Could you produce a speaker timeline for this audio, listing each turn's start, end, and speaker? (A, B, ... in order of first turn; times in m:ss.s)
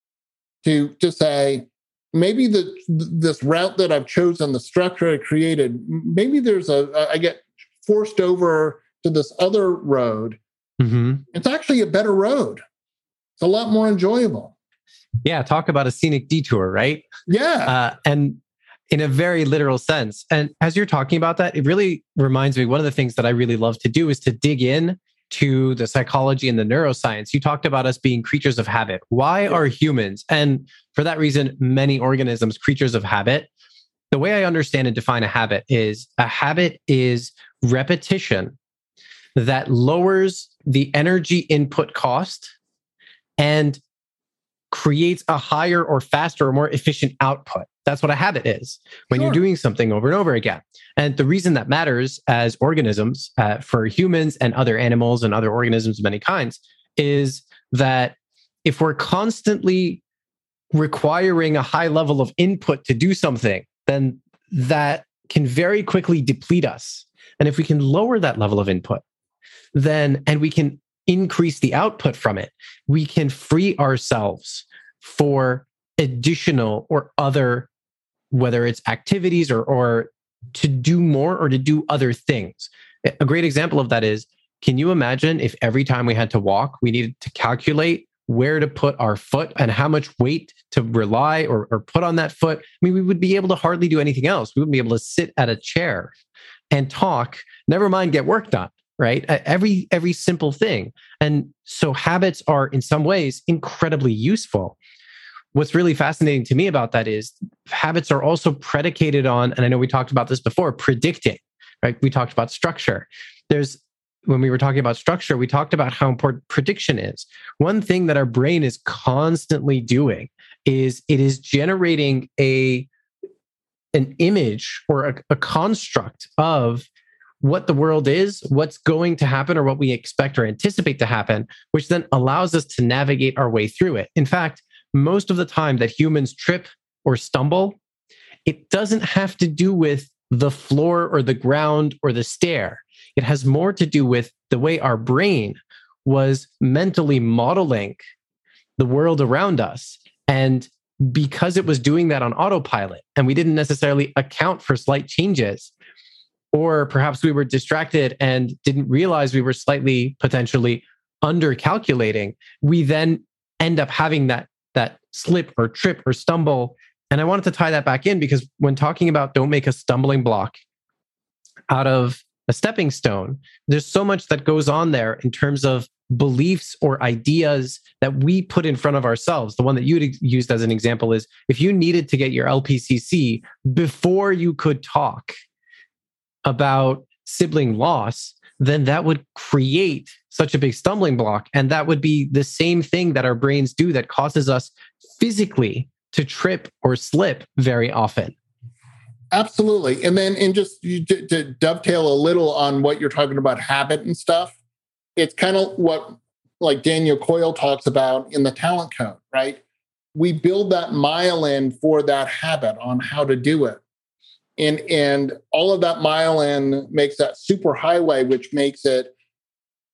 0:00.6-0:10.4 A
0:10.8-0:11.2 B
0:11.3-0:12.6 A
0:13.4-0:14.5 A
0:15.2-0:17.1 B
0:17.3-0:17.8 A
0:17.7-0:18.4 B
0:18.9-0:33.5 B
0:34.1-0:38.6 B
0:39.4-0:42.5 B
0:43.4-0:43.8 B
0:44.7-1:00.0 B
0:49.1-0:49.4 A
1:00.7-1:09.0 B
1:09.7-1:17.7 B
1:18.3-1:36.1 B
1:36.7-1:44.8 B
1:45.6-2:02.9 B
2:03.9-2:06.9 B
2:07.4-2:17.8 B
2:18.5-2:28.0 B
2:28.8-2:35.7 B
2:36.5-2:50.6 B
2:51.7-3:05.3 B
3:06.4-3:18.4 B
3:19.3-3:24.6 A
3:25.2-3:29.6 A
3:30.2-3:33.8 A
3:34.6-3:39.1 A